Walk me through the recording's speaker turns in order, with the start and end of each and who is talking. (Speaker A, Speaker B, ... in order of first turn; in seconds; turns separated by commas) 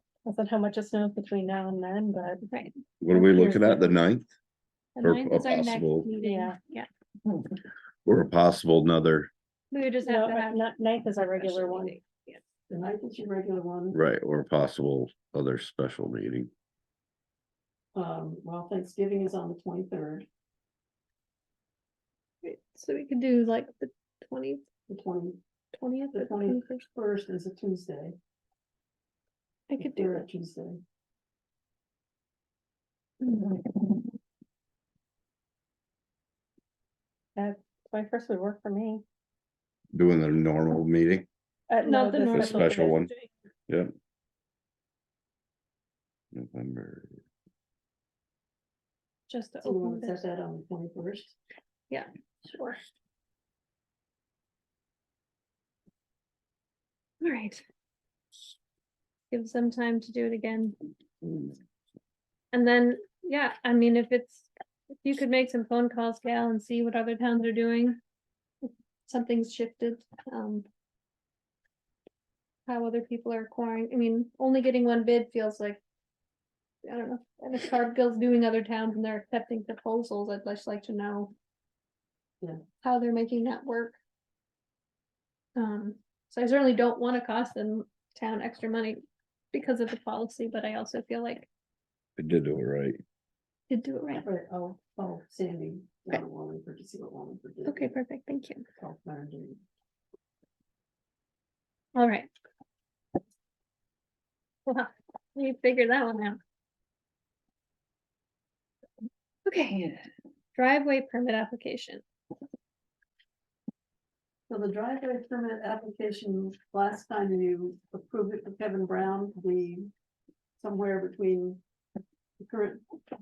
Speaker A: 0.3-2.5, Speaker B: 3.0-4.3, Speaker A: 3.1-3.9, Speaker C: 5.0-6.9, Speaker B: 5.0-6.1, Speaker A: 6.2-6.6, Speaker B: 8.1-9.3, Speaker C: 9.7-10.6, Speaker A: 10.0-12.0, Speaker C: 11.3-12.4, Speaker D: 12.7-14.0, Speaker B: 13.9-16.5, Speaker D: 17.9-20.3, Speaker C: 22.4-24.6, Speaker D: 24.9-25.4, Speaker C: 25.7-26.9, Speaker D: 26.1-28.2, Speaker C: 29.7-30.2, Speaker D: 29.8-30.8, Speaker A: 33.2-33.9, Speaker A: 37.4-39.0, Speaker B: 39.9-41.3, Speaker A: 41.7-43.2, Speaker D: 41.8-42.9, Speaker B: 42.3-43.1, Speaker B: 46.3-47.2, Speaker C: 49.3-50.2, Speaker D: 49.6-51.4, Speaker C: 51.9-52.8, Speaker C: 57.2-57.6, Speaker C: 59.3-60.8, Speaker C: 62.5-64.5, Speaker C: 65.0-68.0, Speaker C: 68.6-70.7, Speaker C: 72.7-75.8, Speaker C: 76.8-81.3, Speaker C: 82.8-84.0, Speaker C: 85.6-91.5, Speaker B: 92.2-93.0, Speaker C: 93.7-94.2, Speaker D: 94.2-97.9, Speaker C: 97.7-98.6, Speaker D: 98.8-99.6, Speaker C: 102.0-102.3, Speaker C: 104.7-106.4, Speaker C: 109.5-110.0, Speaker C: 110.5-112.0, Speaker D: 114.5-119.9, Speaker D: 120.6-121.6, Speaker D: 122.4-122.8